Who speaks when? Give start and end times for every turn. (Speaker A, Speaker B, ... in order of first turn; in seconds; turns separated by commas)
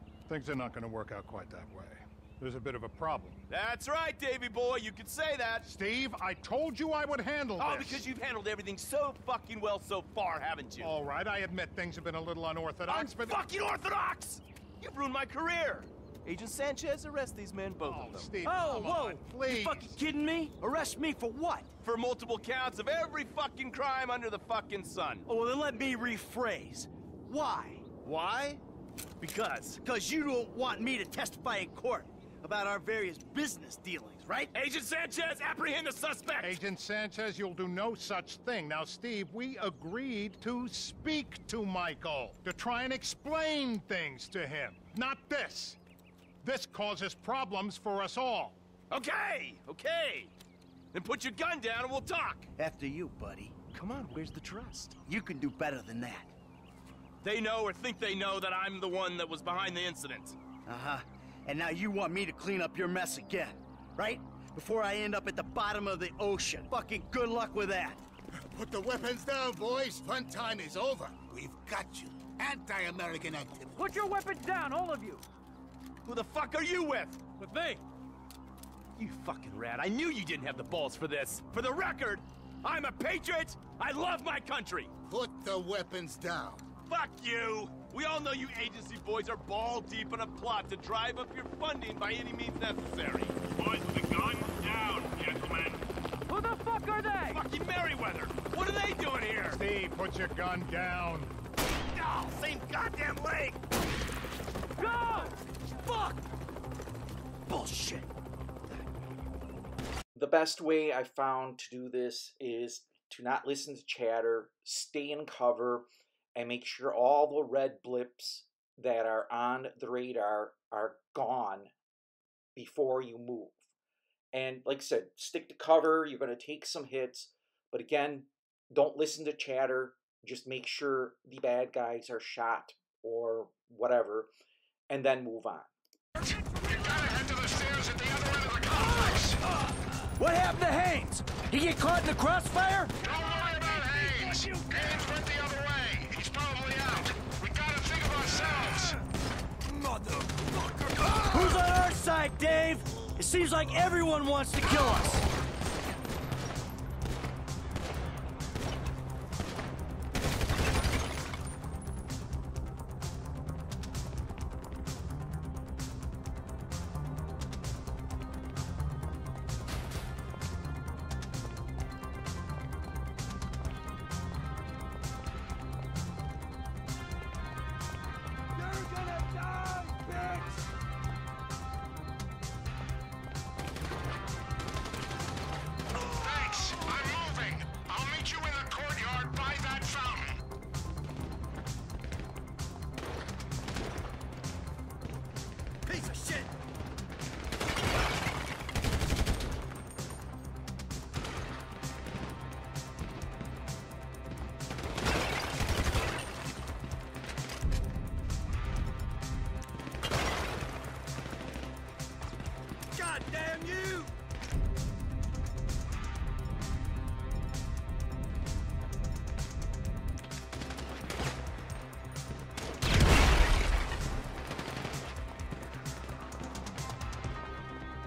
Speaker A: 0.3-3.4, Speaker B: 3.5-5.7, Speaker A: 5.6-8.1, Speaker B: 7.6-10.9, Speaker A: 10.8-13.5, Speaker B: 12.9-18.3, Speaker A: 17.8-20.0, Speaker C: 18.4-21.7, Speaker B: 21.8-25.2, Speaker C: 25.2-27.9, Speaker B: 28.0-28.6, Speaker B: 29.2-29.8, Speaker C: 29.8-34.5, Speaker B: 34.5-36.6, Speaker A: 36.4-45.8, Speaker A: 46.4-48.6, Speaker B: 48.9-50.3, Speaker B: 50.9-52.5, Speaker C: 52.6-53.6, Speaker B: 53.7-54.9, Speaker C: 55.0-56.3, Speaker B: 57.2-60.4, Speaker C: 60.7-68.0, Speaker D: 68.4-73.8, Speaker E: 73.8-75.2, Speaker B: 76.0-77.3, Speaker E: 77.4-77.8, Speaker B: 79.0-84.9, Speaker D: 85.1-86.7, Speaker B: 86.8-95.8, Speaker E: 96.3-97.4, Speaker B: 97.3-99.6, Speaker A: 99.5-101.3, Speaker B: 101.9-103.6, Speaker E: 104.8-105.3, Speaker C: 107.5-108.1, Speaker F: 110.2-121.7, Speaker F: 122.6-123.6, Speaker F: 124.3-134.3, Speaker F: 134.9-135.7, Speaker G: 136.5-139.4, Speaker C: 140.2-142.9, Speaker G: 143.0-149.0, Speaker E: 143.1-145.0, Speaker C: 151.3-155.3, Speaker C: 178.6-180.5, Speaker G: 186.2-190.4, Speaker C: 195.9-196.5